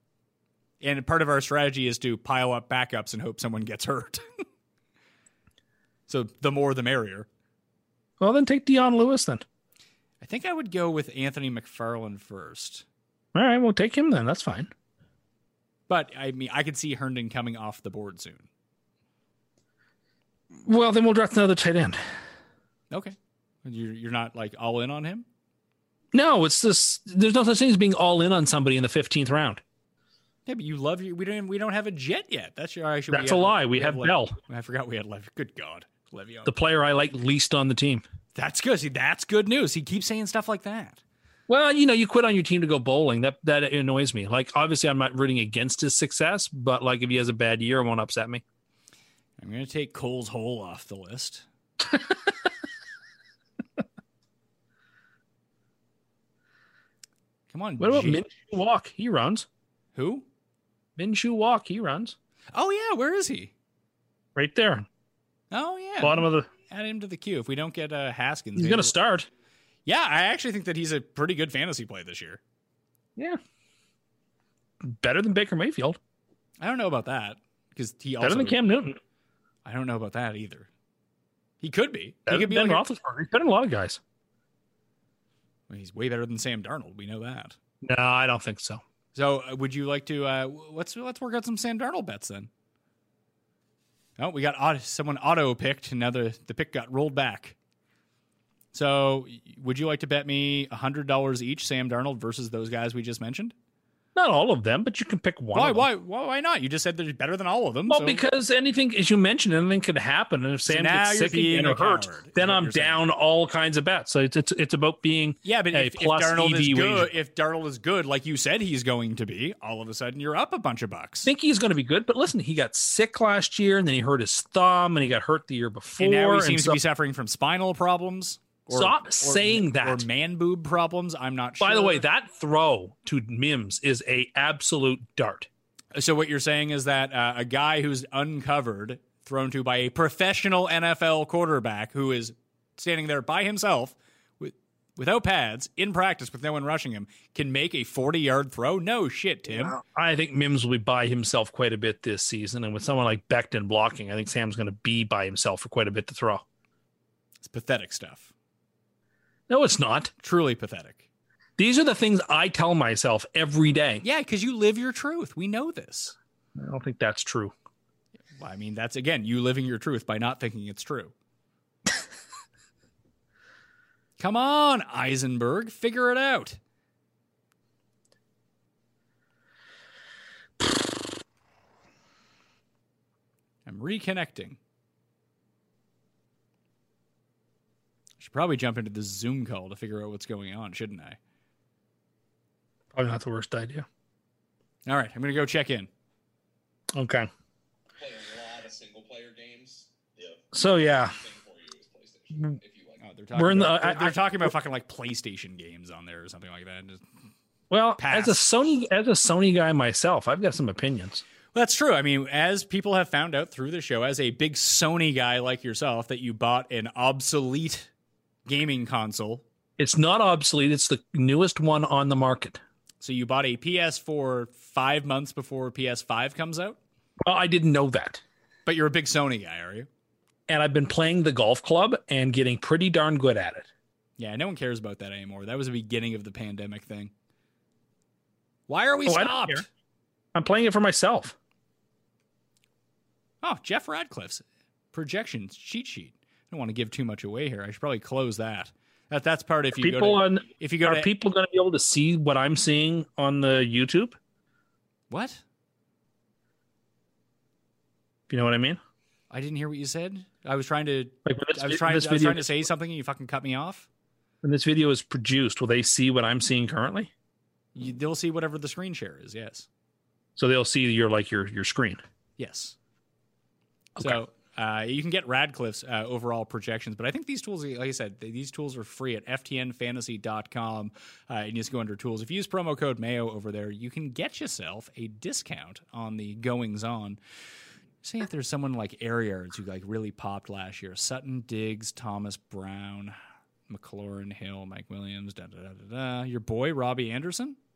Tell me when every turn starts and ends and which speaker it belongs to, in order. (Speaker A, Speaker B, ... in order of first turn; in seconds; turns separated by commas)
Speaker A: 0.8-4.5, Speaker A: 6.1-7.3, Speaker B: 8.2-9.4, Speaker A: 10.2-12.8, Speaker B: 13.3-14.7, Speaker A: 15.9-18.5, Speaker B: 20.6-22.0, Speaker A: 22.9-25.3, Speaker B: 26.1-29.6, Speaker A: 30.5-36.5, Speaker B: 33.1-34.4, Speaker B: 36.5-38.0, Speaker A: 38.4-41.0, Speaker B: 41.5-48.4, Speaker A: 49.4-51.5, Speaker A: 57.5-58.2, Speaker B: 57.8-59.5, Speaker A: 60.0-60.3, Speaker B: 61.0-62.1, Speaker A: 62.5-63.5, Speaker B: 64.4-64.9, Speaker A: 65.5-68.9, Speaker B: 66.0-66.5, Speaker B: 68.6-69.3, Speaker A: 69.9-72.4, Speaker B: 74.8-76.0, Speaker A: 76.6-78.6, Speaker B: 78.2-79.0, Speaker A: 79.7-80.7, Speaker A: 81.6-82.8, Speaker B: 82.3-84.0, Speaker A: 85.7-87.6, Speaker B: 87.8-88.8, Speaker A: 89.2-92.5, Speaker A: 94.2-97.6, Speaker A: 98.7-103.5, Speaker B: 104.2-105.9, Speaker A: 105.5-108.2, Speaker B: 107.9-117.1, Speaker A: 110.7-113.0, Speaker A: 115.4-121.3, Speaker B: 121.2-126.8, Speaker A: 126.0-132.0, Speaker B: 128.7-130.0, Speaker B: 131.6-135.5, Speaker A: 135.9-149.8, Speaker B: 149.5-156.4, Speaker A: 157.4-158.3, Speaker B: 159.5-160.1, Speaker A: 160.2-161.0, Speaker B: 161.6-164.0, Speaker A: 164.0-166.2, Speaker B: 166.6-167.5, Speaker A: 168.4-171.1, Speaker A: 174.2-176.6, Speaker A: 183.7-184.6, Speaker A: 188.2-191.2, Speaker B: 192.9-193.8, Speaker A: 194.9-195.9, Speaker B: 196.9-197.3, Speaker C: 198.0-203.0, Speaker B: 200.5-201.2, Speaker A: 203.0-207.0, Speaker B: 203.4-204.5, Speaker B: 207.7-211.2, Speaker A: 208.0-208.4, Speaker A: 211.5-217.9, Speaker A: 218.5-219.4, Speaker B: 219.8-222.6, Speaker A: 223.0-226.8, Speaker B: 227.2-228.2, Speaker A: 228.7-229.9, Speaker B: 230.5-233.7, Speaker A: 234.2-237.1, Speaker A: 238.7-239.7, Speaker B: 239.1-239.6, Speaker B: 240.3-241.3, Speaker A: 243.4-251.1, Speaker B: 249.8-254.2, Speaker A: 255.1-255.4, Speaker B: 258.3-258.8, Speaker A: 259.3-263.9, Speaker B: 261.2-262.6, Speaker B: 264.4-267.1, Speaker A: 267.8-269.7, Speaker B: 270.4-272.0, Speaker A: 272.4-272.8, Speaker A: 274.0-287.2, Speaker A: 288.0-293.2, Speaker A: 293.7-297.6